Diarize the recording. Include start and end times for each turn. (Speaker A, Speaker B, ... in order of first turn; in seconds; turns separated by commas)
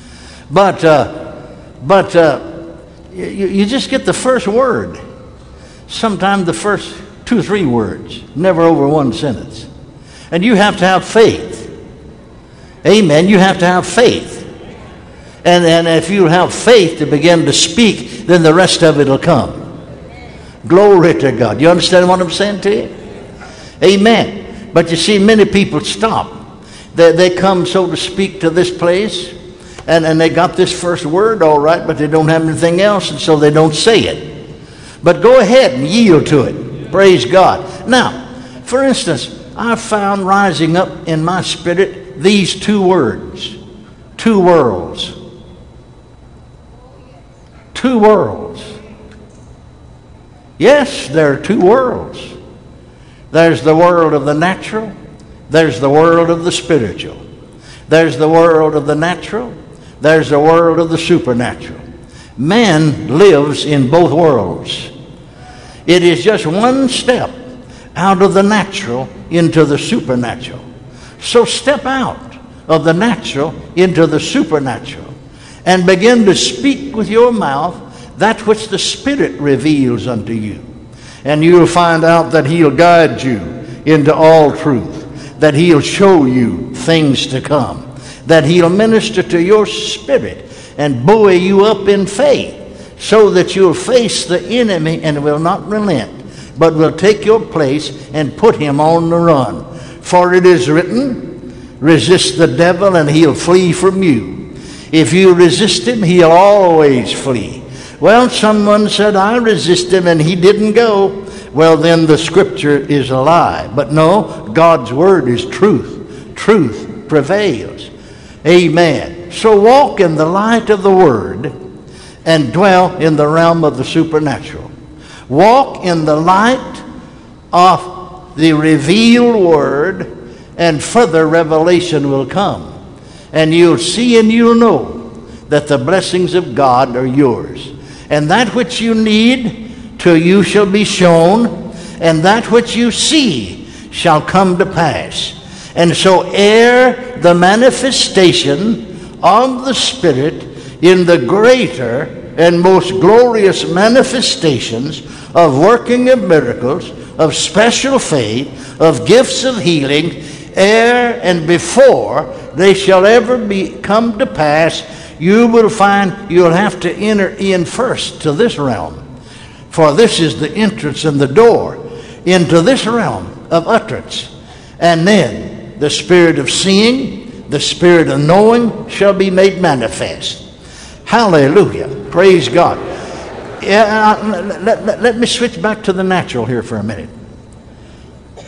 Speaker A: 0.5-5.0, Speaker A: 5.9-9.7, Speaker A: 10.3-11.7, Speaker A: 12.8-14.5, Speaker A: 15.4-19.6, Speaker A: 20.6-22.9, Speaker A: 23.8-26.4, Speaker A: 26.9-29.3, Speaker A: 29.9-34.4, Speaker A: 35.0-43.6, Speaker A: 44.2-45.1, Speaker A: 47.7-48.7, Speaker A: 50.6-52.3, Speaker A: 53.3-54.9, Speaker A: 55.5-57.2, Speaker A: 57.9-61.8, Speaker A: 62.4-64.9, Speaker A: 65.8-67.3, Speaker A: 67.9-70.6, Speaker A: 71.2-75.1, Speaker A: 75.6-80.7, Speaker A: 81.2-117.9, Speaker A: 118.4-121.5, Speaker A: 122.2-124.7, Speaker A: 125.3-126.8, Speaker A: 127.5-132.7, Speaker A: 133.3-169.0, Speaker A: 169.7-180.4, Speaker A: 181.0-182.8, Speaker A: 183.6-187.1